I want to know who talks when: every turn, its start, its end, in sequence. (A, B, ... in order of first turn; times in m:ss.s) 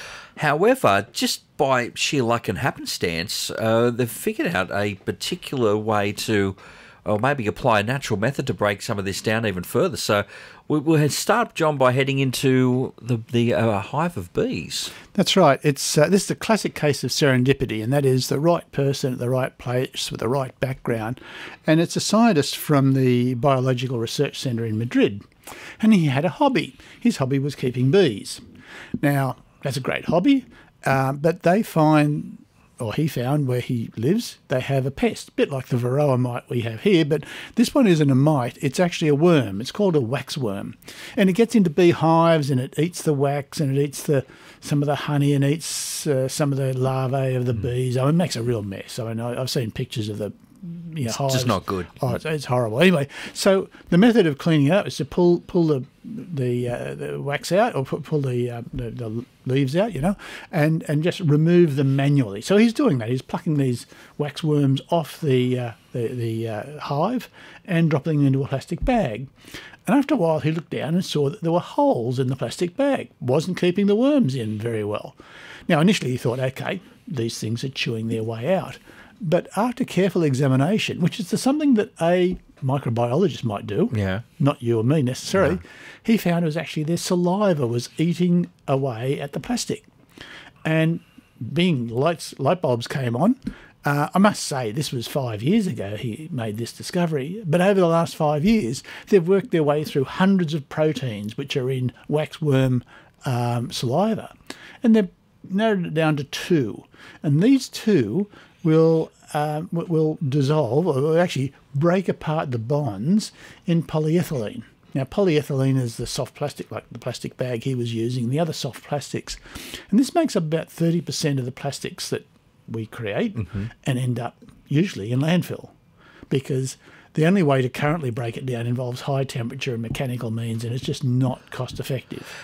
0:00.4-0:14.9 A
0:15.1-0:25.2 B
0:25.8-0:28.4 B
0:29.0-1:09.3 B
0:51.0-0:52.2 A
1:09.8-1:29.9 B
1:23.9-1:24.2 A
1:30.6-2:05.7 B
2:03.4-2:03.7 A
2:06.3-2:12.3 B